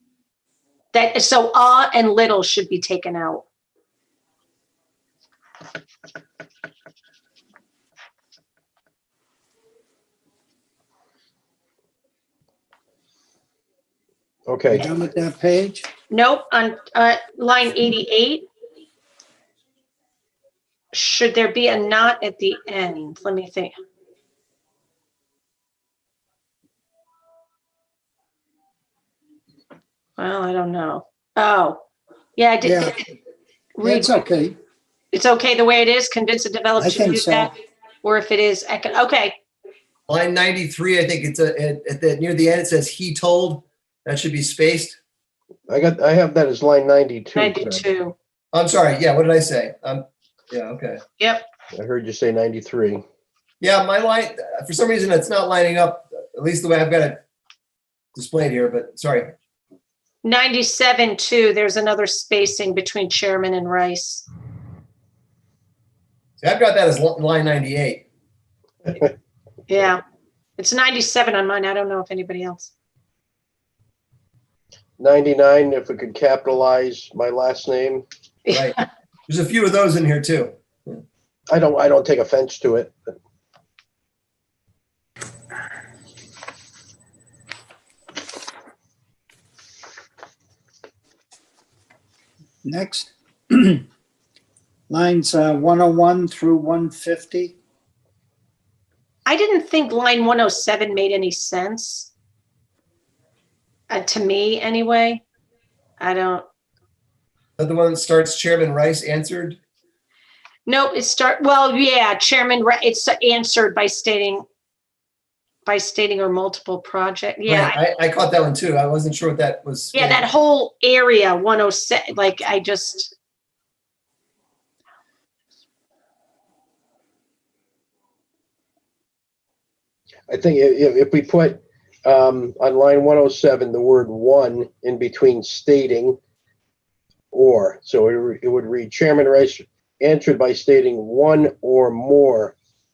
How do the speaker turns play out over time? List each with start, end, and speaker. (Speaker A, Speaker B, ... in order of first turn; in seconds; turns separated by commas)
Speaker A: 0.9-3.5, Speaker B: 14.5-14.9, Speaker C: 14.7-15.9, Speaker A: 16.1-18.4, Speaker A: 20.9-23.7, Speaker A: 30.2-31.8, Speaker A: 32.4-33.0, Speaker C: 32.6-32.9, Speaker A: 33.8-34.2, Speaker C: 33.8-34.5, Speaker A: 35.1-39.4, Speaker C: 36.8-37.5, Speaker D: 40.1-45.0, Speaker B: 45.7-47.9, Speaker A: 47.3-48.1, Speaker D: 48.5-51.0, Speaker A: 51.2-51.4, Speaker B: 51.7-53.0, Speaker D: 53.6-57.2, Speaker D: 58.1-59.3, Speaker A: 60.2-64.3, Speaker D: 66.4-68.0, Speaker A: 69.7-70.0, Speaker A: 70.6-72.7, Speaker B: 75.0-78.0, Speaker A: 78.5-78.8, Speaker D: 78.5-81.0, Speaker B: 81.5-83.1, Speaker C: 92.6-93.8, Speaker C: 94.9-97.5, Speaker A: 99.2-102.1, Speaker A: 103.9-105.2, Speaker A: 106.0-106.4, Speaker D: 107.6-109.6, Speaker A: 110.7-114.4, Speaker A: 115.7-117.8, Speaker D: 117.5-120.2, Speaker A: 119.9-123.1, Speaker B: 130.3-136.2, Speaker B: 137.3-142.5